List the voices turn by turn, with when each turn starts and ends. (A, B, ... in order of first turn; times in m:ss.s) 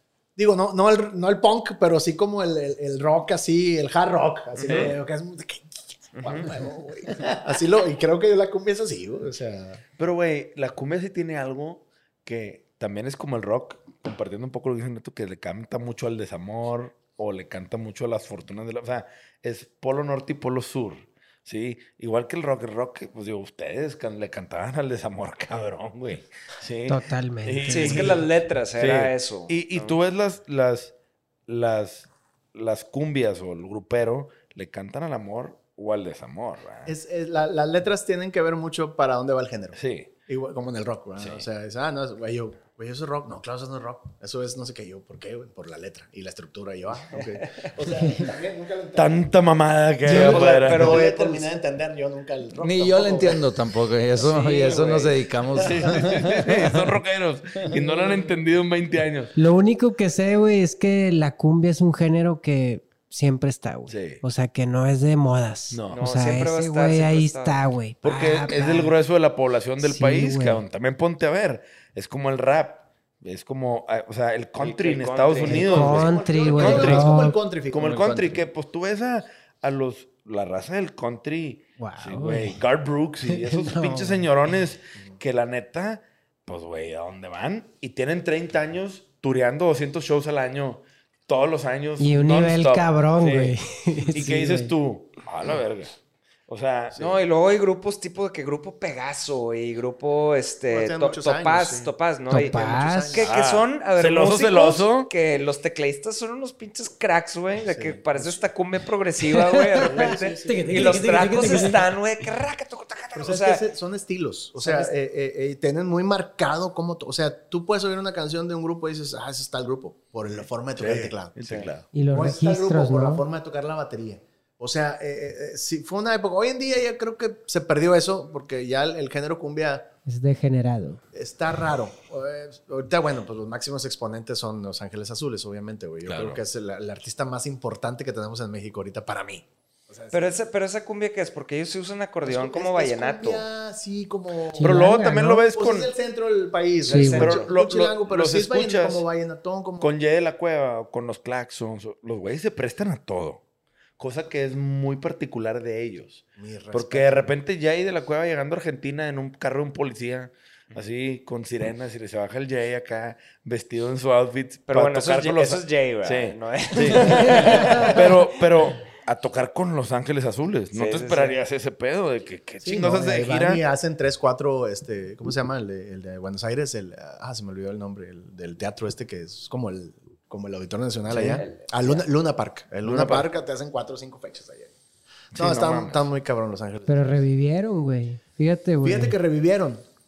0:00.4-0:09.8 A
0:04.6-0:05.0 B
0:04.6-0:05.0 C
0:06.2-0:06.5 B
0:10.0-0:28.3 C
0:26.9-0:28.1 D
0:27.7-0:30.0 B
0:28.8-0:30.9 C
0:31.5-0:36.9 C
0:36.9-0:49.3 A
0:39.7-0:40.1 C
0:41.2-0:41.4 C
0:47.1-0:47.7 B
0:49.0-0:51.0 C
0:50.0-0:53.6 A
0:50.0-0:51.5 B
0:52.6-0:57.0 E
0:54.2-0:55.2 B
0:55.6-0:56.0 A
0:55.6-0:59.3 C
0:59.4-1:08.9 D
1:03.9-1:04.2 C
1:05.7-1:06.0 C
1:05.9-1:07.6 B
1:08.0-1:17.1 C
1:09.8-1:10.6 D
1:14.6-1:17.0 B
1:15.4-1:18.5 A
1:15.4-1:17.4 D
1:17.7-1:33.6 C
1:21.8-1:22.6 D
1:23.2-1:24.5 D
1:32.0-1:34.7 D
1:34.1-1:36.0 C
1:36.5-1:37.0 C
1:37.0-1:53.6 B
1:40.7-1:43.4 A
1:42.3-1:43.2 D
1:43.2-1:45.1 C
1:47.7-1:48.4 A
1:49.5-1:51.8 D
1:49.8-1:51.8 A
1:53.2-2:09.9 A
1:54.6-1:54.9 B
2:00.3-2:01.9 C
2:01.4-2:01.7 B
2:01.9-2:03.2 D
2:10.1-2:11.0 D
2:11.1-2:20.4 A
2:16.0-2:16.4 C
2:20.1-2:23.4 B
2:22.2-2:24.9 A
2:24.6-2:25.4 D
2:24.6-2:25.9 C
2:25.5-2:29.9 A
2:26.9-2:27.2 D
2:26.9-2:27.5 B
2:27.1-2:29.0 C
2:29.8-2:33.4 C
2:34.0-2:53.6 C
2:36.4-2:37.3 A
2:44.7-2:48.2 B
2:46.9-2:47.9 A
2:50.7-2:51.4 B
2:52.6-3:04.7 A
3:01.1-3:02.1 B
3:02.8-3:03.3 C
3:05.3-3:07.2 A
3:05.3-3:06.1 C
3:06.9-3:09.2 D
3:08.8-3:09.8 A